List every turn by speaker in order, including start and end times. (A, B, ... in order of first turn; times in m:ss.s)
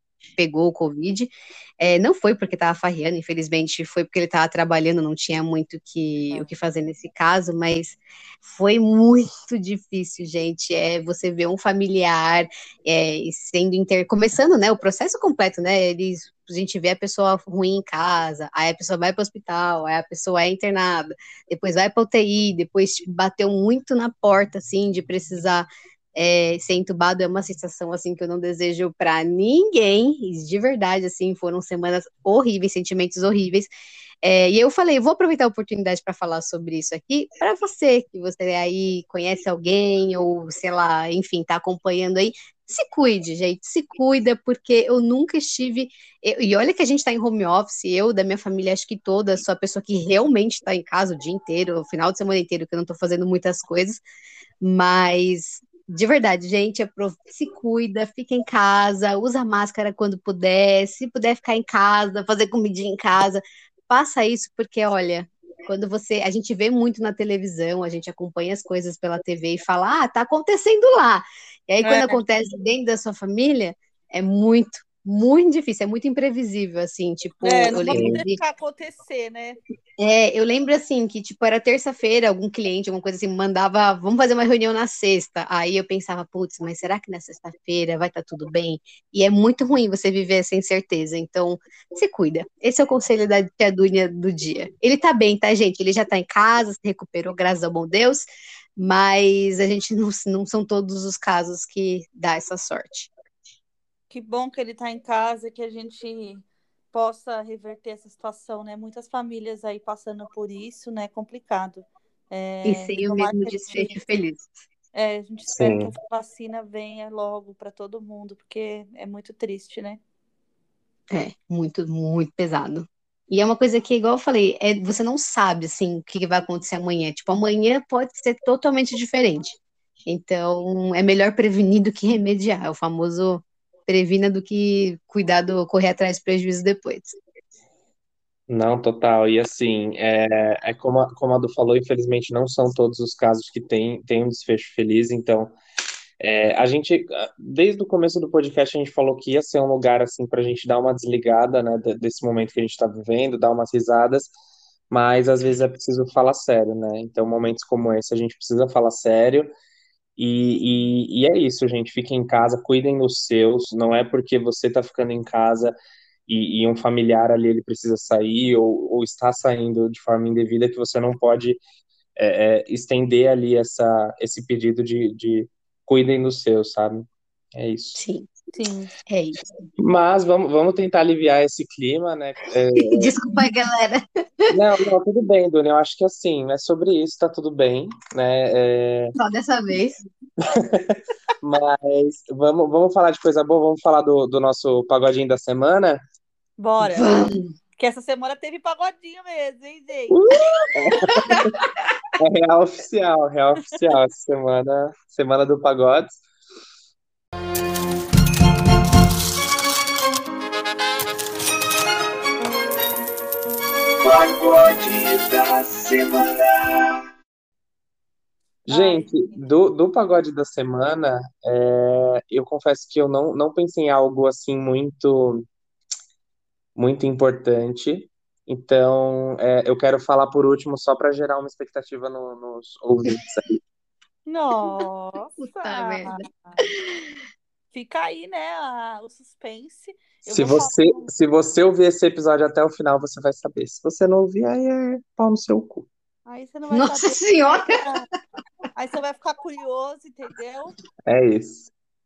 0:00.4-0:33.7 A
0:34.2-0:54.0 A
0:54.6-1:18.4 A
1:11.8-1:12.2 B
1:17.4-1:19.6 B
1:17.9-1:18.2 C
1:20.0-1:43.1 A
1:44.1-1:54.0 B
1:52.6-1:54.5 A
1:54.9-2:00.0 B
1:55.5-1:55.9 C
2:01.1-2:17.2 A
2:18.5-2:25.6 C
2:26.2-2:34.3 C
2:34.9-2:39.5 C
2:40.2-2:45.7 C
2:46.3-2:51.6 C
2:52.2-2:58.0 C
2:57.9-2:58.3 A
2:58.5-2:58.9 B
2:59.1-2:59.4 A
2:59.8-3:03.1 C
3:02.7-3:04.6 A
3:04.5-3:09.1 C
3:09.2-3:10.0 A
3:10.4-3:16.0 C
3:16.6-3:17.2 B
3:16.8-3:17.5 A
3:17.8-3:20.7 B
3:20.1-3:21.6 C
3:22.2-3:26.2 C
3:34.0-3:36.8 C
3:38.7-3:45.4 C
3:38.7-3:39.5 B
3:46.8-3:53.4 C
3:54.2-3:56.6 B
3:55.4-3:57.1 A
3:57.7-4:01.1 B
4:00.3-4:05.9 C
4:06.3-4:08.1 B
4:06.7-4:07.8 A
4:08.7-4:10.7 B
4:11.1-4:11.7 C